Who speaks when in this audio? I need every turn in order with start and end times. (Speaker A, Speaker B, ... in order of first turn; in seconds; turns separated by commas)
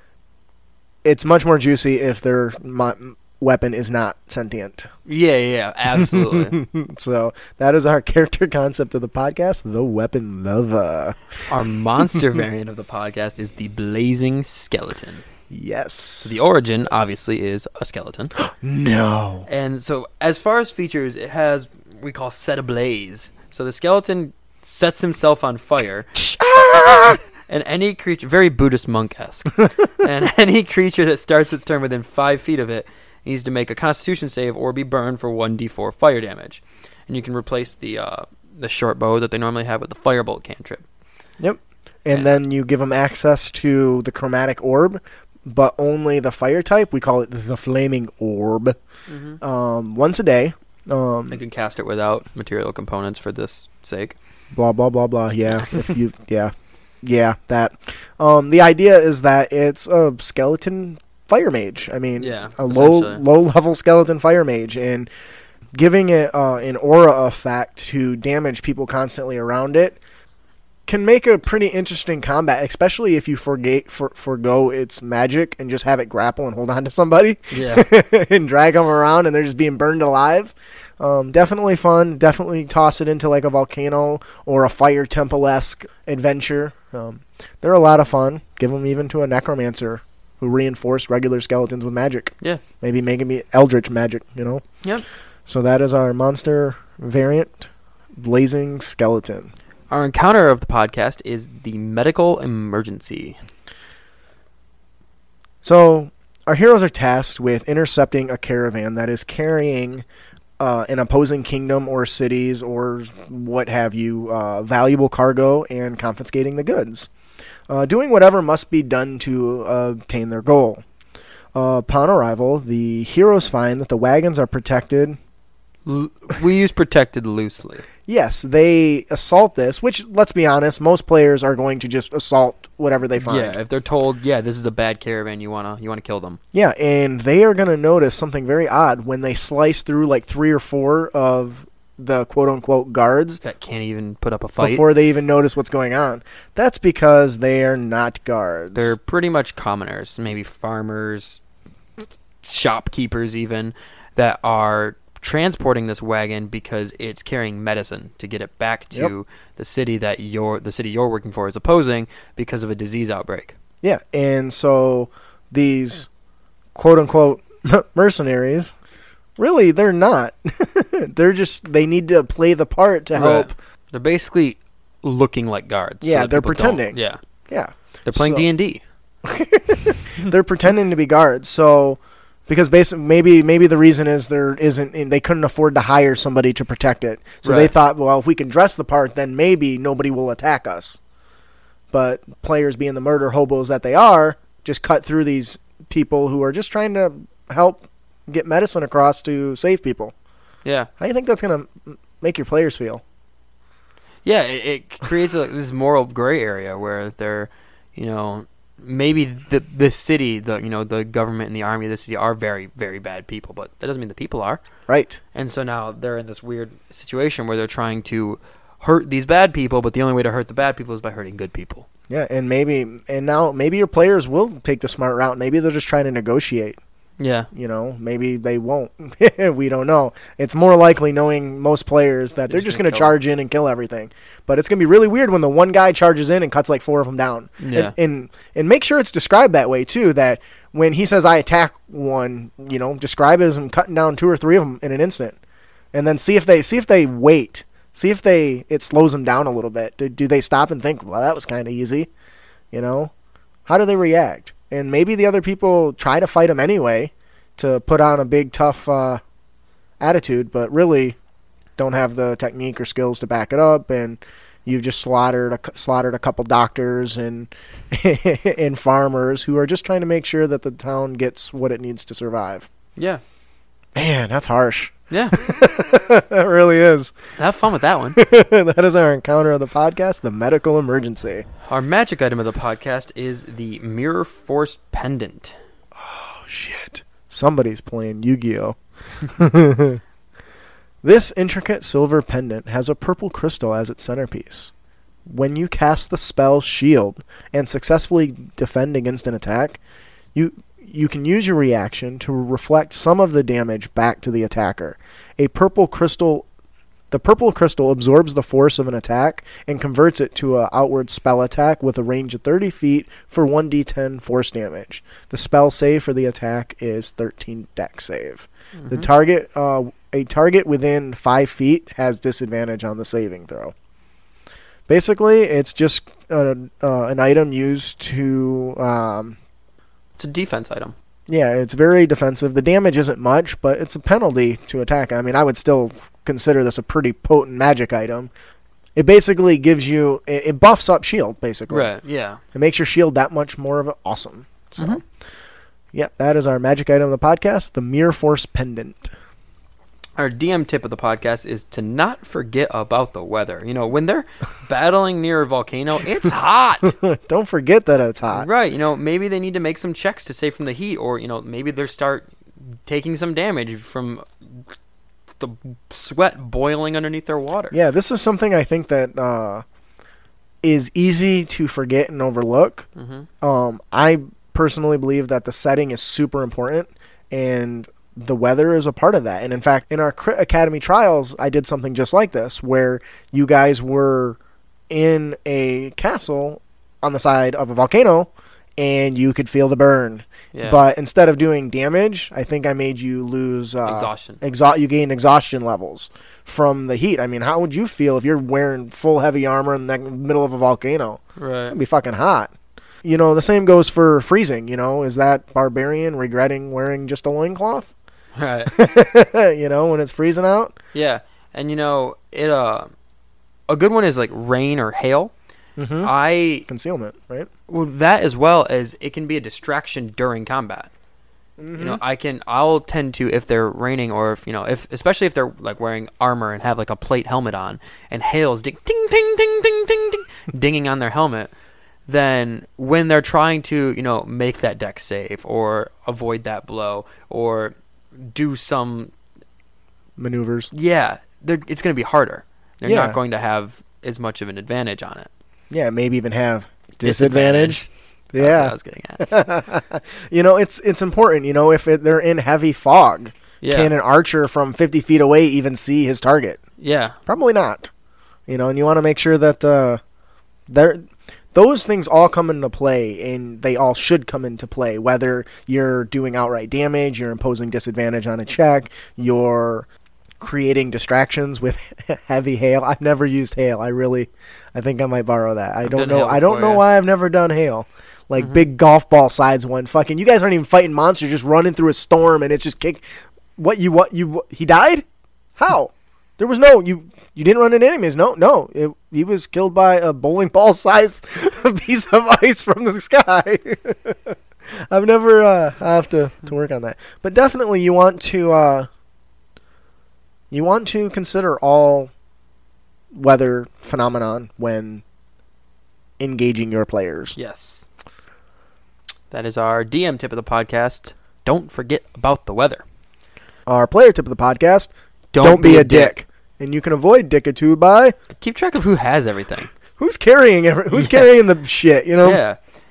Speaker A: 1.0-4.9, Speaker B: 5.1-6.6, Speaker A: 5.9-12.3, Speaker B: 11.5-15.2, Speaker A: 15.5-16.4, Speaker B: 16.2-18.4, Speaker A: 18.4-19.5, Speaker B: 19.5-40.9, Speaker A: 26.3-27.2, Speaker A: 41.4-48.8, Speaker B: 49.1-49.4, Speaker A: 49.4-51.4, Speaker B: 51.3-54.2, Speaker A: 54.5-56.5, Speaker B: 55.5-55.9, Speaker A: 57.0-65.1, Speaker B: 62.2-63.2, Speaker A: 65.8-70.0, Speaker A: 70.9-94.6, Speaker B: 77.5-77.8, Speaker A: 95.5-99.5, Speaker B: 99.9-103.4, Speaker A: 105.6-110.0, Speaker A: 110.6-117.1, Speaker A: 117.7-120.8, Speaker A: 121.5-125.2, Speaker B: 125.9-127.9, Speaker A: 128.1-133.6, Speaker B: 133.2-136.4, Speaker A: 136.5-143.4, Speaker B: 143.4-144.8, Speaker A: 144.6-148.9, Speaker B: 148.8-151.4, Speaker B: 152.4-163.6, Speaker A: 163.8-166.1, Speaker A: 166.8-168.8, Speaker A: 169.4-173.6, Speaker B: 173.1-177.2, Speaker A: 176.0-178.5, Speaker B: 178.1-178.8, Speaker A: 179.2-191.0, Speaker B: 187.4-187.7, Speaker A: 191.9-200.1, Speaker A: 201.0-203.0, Speaker B: 204.2-214.6, Speaker A: 214.9-215.2, Speaker B: 215.3-221.9, Speaker A: 222.1-226.8, Speaker B: 227.2-227.5, Speaker A: 227.5-245.4, Speaker B: 232.5-233.2, Speaker B: 237.6-237.9, Speaker A: 245.9-252.1, Speaker A: 252.7-253.1, Speaker A: 253.7-259.2, Speaker A: 260.0-261.2, Speaker A: 261.8-272.7, Speaker B: 273.0-273.2, Speaker A: 273.9-277.3, Speaker B: 275.1-275.4, Speaker B: 277.4-278.2, Speaker A: 278.1-281.5, Speaker B: 281.6-285.6, Speaker A: 286.0-290.0, Speaker A: 291.0-294.7, Speaker A: 295.3-299.8, Speaker A: 300.3-306.5, Speaker A: 307.1-323.7, Speaker B: 318.8-319.1, Speaker A: 324.9-329.4, Speaker B: 330.2-331.0, Speaker A: 331.3-338.3, Speaker A: 339.0-341.9, Speaker B: 341.7-342.4, Speaker A: 342.5-345.0, Speaker A: 345.9-349.1, Speaker B: 350.2-356.9, Speaker A: 356.9-358.5, Speaker B: 358.3-364.7, Speaker B: 365.4-367.8, Speaker A: 367.7-369.6, Speaker A: 370.6-372.9, Speaker B: 373.0-373.3, Speaker A: 373.4-384.4, Speaker A: 384.9-402.5, Speaker B: 390.5-390.8, Speaker B: 393.9-394.4, Speaker B: 401.4-401.8, Speaker A: 403.0-407.9, Speaker B: 408.4-408.8, Speaker A: 408.7-410.8, Speaker B: 410.9-412.9, Speaker B: 413.7-415.3, Speaker A: 415.8-416.1, Speaker B: 416.0-416.7, Speaker A: 416.7-417.5, Speaker B: 417.7-420.9, Speaker A: 421.6-422.0, Speaker B: 421.7-431.5, Speaker B: 432.1-439.1, Speaker A: 440.2-440.7, Speaker B: 440.7-445.3, Speaker A: 442.9-443.2, Speaker A: 445.7-456.6, Speaker B: 447.0-449.3, Speaker B: 453.6-453.9, Speaker B: 456.8-457.2, Speaker A: 457.3-457.9, Speaker A: 458.5-460.0, Speaker A: 460.7-469.9, Speaker A: 470.4-483.1, Speaker B: 475.9-476.8, Speaker A: 483.6-485.1, Speaker A: 485.6-498.9, Speaker A: 500.5-502.1, Speaker A: 503.1-505.0, Speaker A: 506.2-507.4, Speaker B: 507.4-507.9, Speaker B: 509.3-512.8, Speaker A: 513.7-518.1, Speaker B: 515.3-516.1, Speaker B: 518.4-519.7, Speaker A: 520.0-522.4, Speaker B: 520.9-521.3, Speaker B: 522.2-522.6